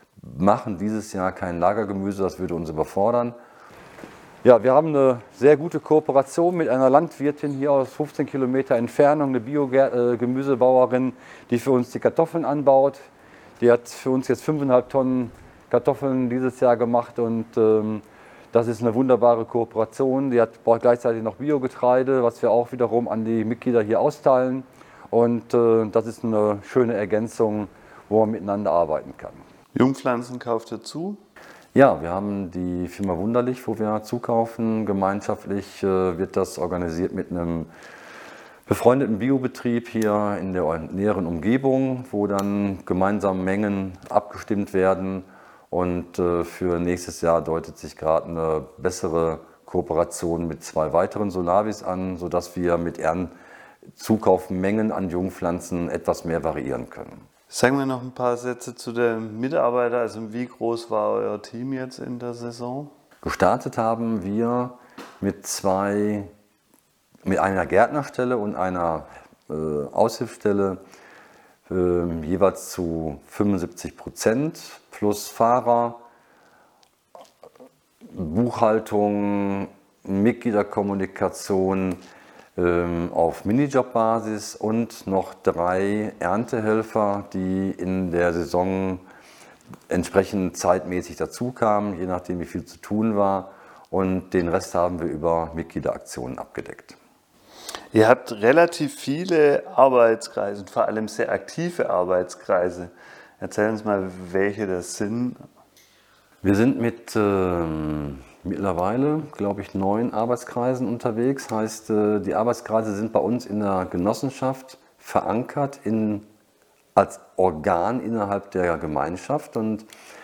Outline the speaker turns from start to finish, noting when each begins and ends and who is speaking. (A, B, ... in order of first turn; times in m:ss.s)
0:00.2-0:03.4 A
0:04.4-0:13.1 A
0:13.6-0:29.4 A
0:29.7-0:31.2 B
0:31.7-0:37.7 A
0:38.7-0:53.3 A
0:54.0-0:57.2 A
0:57.5-1:02.9 B
1:03.2-1:06.3 A
1:07.2-1:10.8 A
1:11.7-1:16.0 A
1:18.1-1:22.0 A
1:22.6-1:29.0 A
1:29.9-1:37.0 A
1:37.9-1:45.4 B
1:46.4-1:56.3 A
1:57.0-1:59.9 A